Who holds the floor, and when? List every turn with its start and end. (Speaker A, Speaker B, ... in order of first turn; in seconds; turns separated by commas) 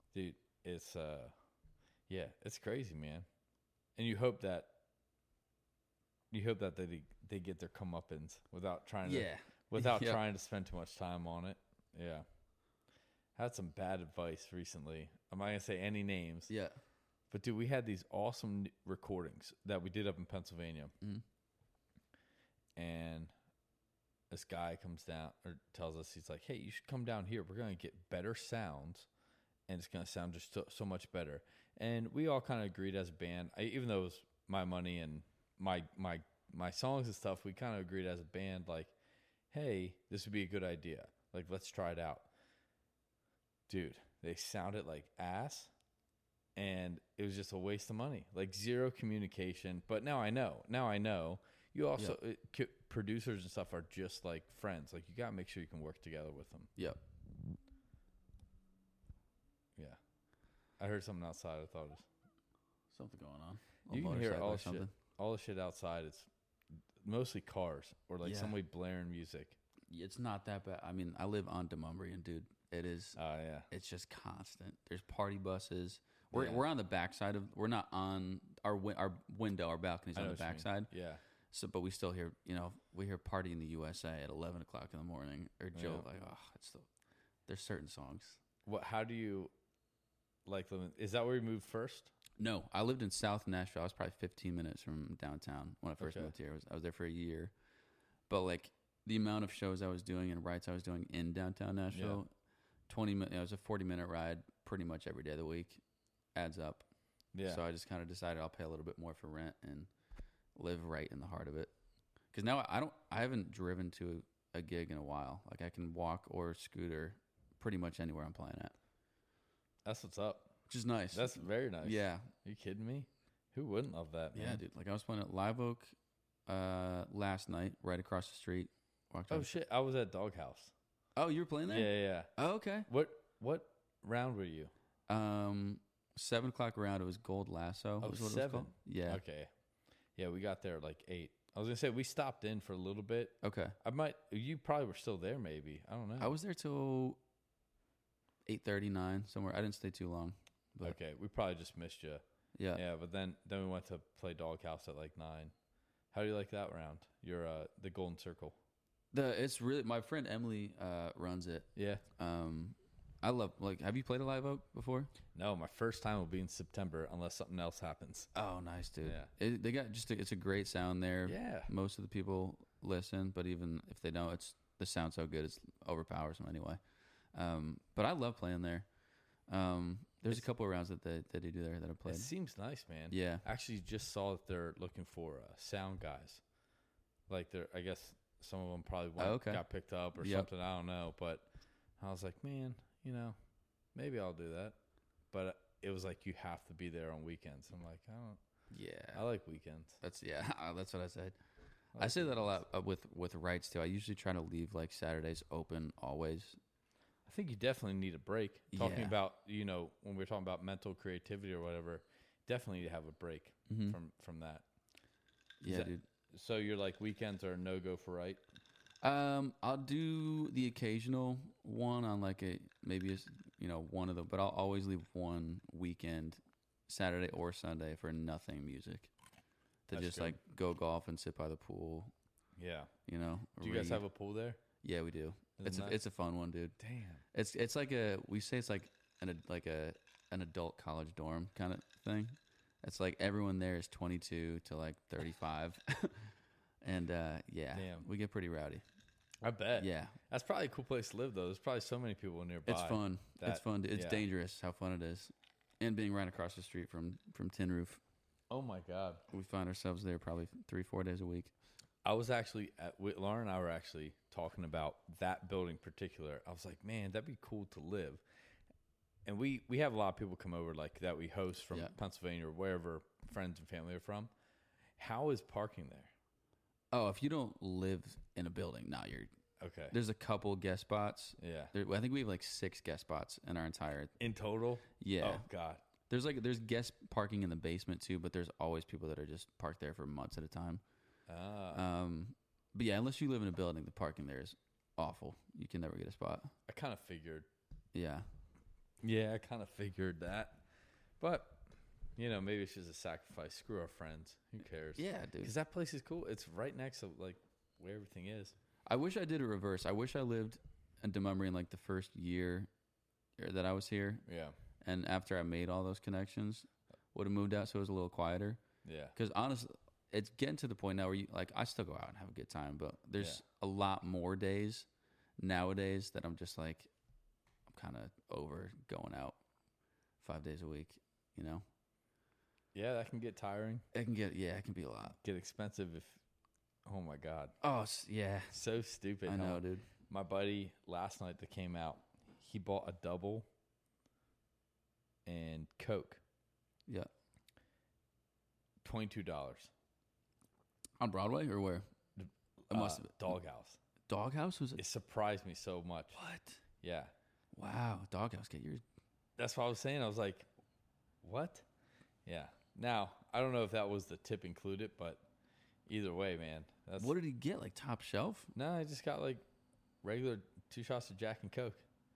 Speaker A: 0.1-1.3, Speaker A: 2.1-3.2, Speaker A: 4.0-4.8, Speaker A: 6.3-12.2, Speaker B: 9.0-10.2, Speaker A: 13.3-16.5, Speaker B: 16.5-16.8, Speaker A: 17.3-20.9, Speaker A: 22.8-23.3, Speaker A: 24.3-29.1, Speaker A: 29.7-38.9, Speaker A: 39.5-42.3, Speaker A: 43.7-45.7, Speaker A: 46.5-56.7, Speaker B: 56.8-57.0, Speaker A: 60.8-62.1, Speaker B: 62.9-64.9, Speaker A: 63.9-66.3, Speaker A: 67.0-69.6, Speaker B: 68.2-68.5, Speaker B: 69.9-73.2, Speaker A: 73.2-73.7, Speaker B: 73.7-80.9, Speaker A: 76.3-76.6, Speaker A: 80.1-81.2, Speaker B: 81.5-86.9, Speaker A: 85.7-86.0, Speaker B: 87.5-88.4, Speaker A: 88.7-89.5, Speaker A: 90.5-92.1, Speaker B: 92.4-97.5, Speaker A: 96.0-96.3, Speaker B: 98.3-102.3, Speaker A: 101.9-102.2, Speaker B: 102.9-105.8, Speaker B: 106.3-106.9, Speaker A: 107.3-107.6, Speaker B: 107.4-109.9, Speaker B: 110.5-111.7, Speaker B: 112.3-118.7, Speaker A: 119.8-120.5, Speaker B: 120.7-122.3, Speaker A: 121.1-124.6, Speaker B: 124.3-125.9, Speaker B: 126.5-129.5, Speaker A: 129.3-130.7, Speaker B: 131.2-132.9, Speaker A: 131.7-132.3, Speaker A: 132.9-134.7, Speaker B: 135.1-139.2, Speaker A: 138.0-139.5, Speaker A: 140.2-146.3, Speaker B: 143.4-143.8, Speaker B: 146.2-147.2, Speaker B: 148.5-150.9, Speaker A: 150.8-152.2, Speaker B: 152.5-152.8, Speaker A: 152.7-155.5, Speaker A: 156.1-158.6, Speaker B: 159.1-165.1, Speaker A: 161.8-162.0, Speaker A: 165.3-168.3, Speaker B: 168.3-176.8, Speaker A: 169.0-169.3, Speaker A: 171.2-171.7, Speaker B: 177.3-178.9, Speaker B: 179.5-182.3, Speaker A: 182.1-186.4, Speaker B: 183.1-183.4, Speaker A: 187.3-191.5, Speaker B: 189.2-189.6, Speaker B: 190.2-190.5, Speaker A: 192.0-193.3, Speaker A: 193.9-194.8, Speaker A: 195.3-198.4, Speaker B: 198.7-199.2, Speaker A: 199.1-200.0, Speaker B: 200.0-201.4, Speaker A: 201.9-202.6, Speaker B: 202.0-206.6, Speaker A: 207.2-214.7, Speaker B: 208.7-209.2, Speaker B: 213.7-214.0, Speaker B: 215.6-216.0, Speaker A: 215.7-218.4, Speaker B: 219.0-229.1, Speaker B: 229.9-232.1, Speaker A: 229.9-230.4, Speaker A: 232.6-232.9, Speaker B: 233.1-234.0, Speaker A: 233.6-234.6, Speaker B: 234.8-236.8, Speaker A: 235.6-236.0, Speaker A: 236.8-237.2, Speaker B: 237.3-246.3, Speaker B: 246.8-248.8, Speaker A: 247.7-248.1, Speaker A: 249.4-254.2, Speaker B: 249.8-250.2, Speaker B: 252.7-258.0, Speaker A: 258.5-259.2, Speaker B: 259.3-261.5, Speaker A: 262.0-268.2, Speaker A: 269.2-274.3, Speaker A: 275.0-276.1, Speaker B: 276.9-279.3, Speaker A: 279.6-279.9, Speaker B: 279.9-284.1, Speaker A: 281.4-281.7, Speaker A: 284.2-285.8, Speaker B: 285.0-285.5, Speaker B: 286.1-290.8, Speaker A: 291.3-291.8, Speaker B: 291.7-296.5, Speaker A: 296.7-297.5, Speaker B: 297.9-298.3, Speaker A: 299.0-300.6, Speaker A: 301.2-308.5, Speaker B: 304.9-305.5, Speaker B: 308.9-312.7, Speaker B: 313.4-314.2, Speaker A: 314.3-314.6, Speaker B: 314.8-318.6, Speaker A: 318.8-319.1, Speaker B: 319.1-324.9, Speaker B: 325.4-326.9, Speaker B: 327.7-329.4, Speaker B: 330.2-331.6, Speaker A: 332.7-333.8, Speaker B: 333.9-335.2, Speaker A: 335.2-336.2, Speaker A: 336.8-337.6, Speaker B: 337.6-338.6, Speaker A: 338.5-343.5, Speaker B: 339.2-339.9, Speaker A: 345.2-346.2, Speaker A: 348.8-349.7, Speaker B: 351.0-351.8, Speaker A: 352.2-353.8, Speaker B: 352.7-353.3, Speaker B: 354.1-354.8, Speaker A: 354.8-356.2, Speaker B: 356.1-356.6, Speaker A: 356.8-357.1, Speaker B: 357.5-358.8, Speaker A: 359.4-360.5, Speaker A: 361.2-361.6, Speaker A: 362.2-365.3, Speaker A: 365.9-367.1, Speaker B: 367.0-368.5, Speaker A: 368.5-369.4, Speaker A: 370.0-371.8